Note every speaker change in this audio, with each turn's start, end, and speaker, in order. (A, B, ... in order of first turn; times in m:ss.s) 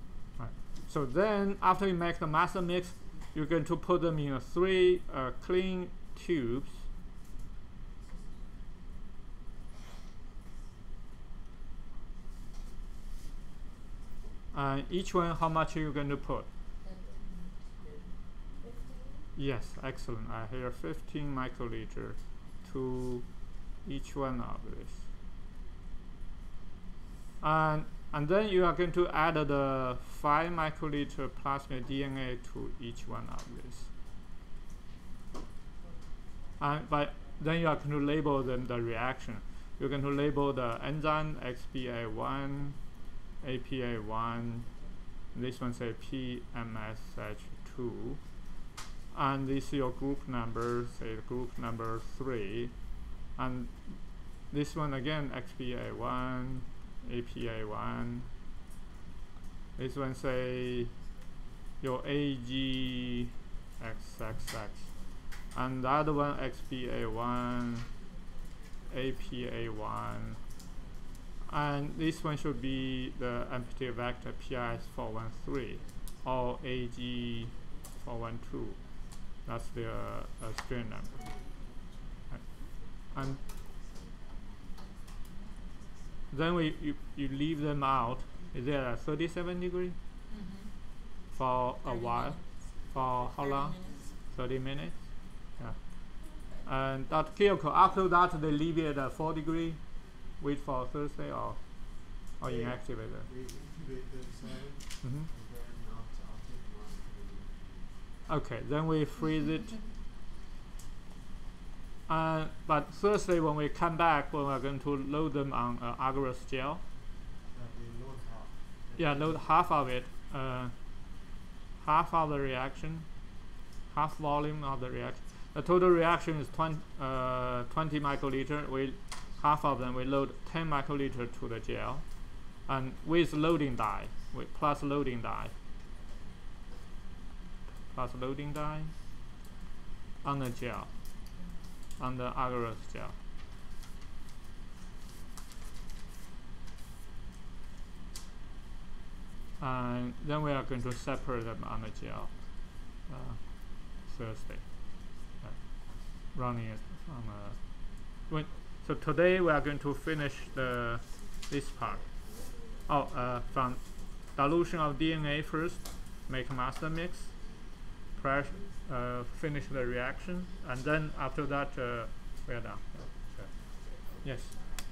0:00.4-0:06.9 A
0:14.5-0:16.5 A
0:16.8-0:18.0 B
0:18.6-0:19.1 B
0:19.4-0:25.1 A
0:27.4-0:33.9 A
0:36.6-0:42.8 A
0:43.4-0:44.7 A
0:45.3-0:48.5 A
0:49.1-0:58.3 A
0:59.8-1:00.9 A
1:01.8-1:07.9 A
1:08.9-1:10.4 A
1:11.4-1:21.4 A
1:23.1-1:23.4 A
1:26.3-1:30.0 A
1:30.3-1:30.7 B
1:31.3-1:43.3 A
1:31.9-1:32.4 B
1:33.4-1:34.0 B
1:42.4-1:48.1 C
1:48.3-1:49.8 A
1:52.1-1:56.8 A
1:57.5-1:59.6 C
1:59.0-2:01.2 A
2:01.8-2:03.1 A
2:03.9-2:15.5 A
2:17.9-2:19.0 A
2:20.2-2:21.0 A
2:22.0-2:23.2 A
2:29.6-2:54.6 A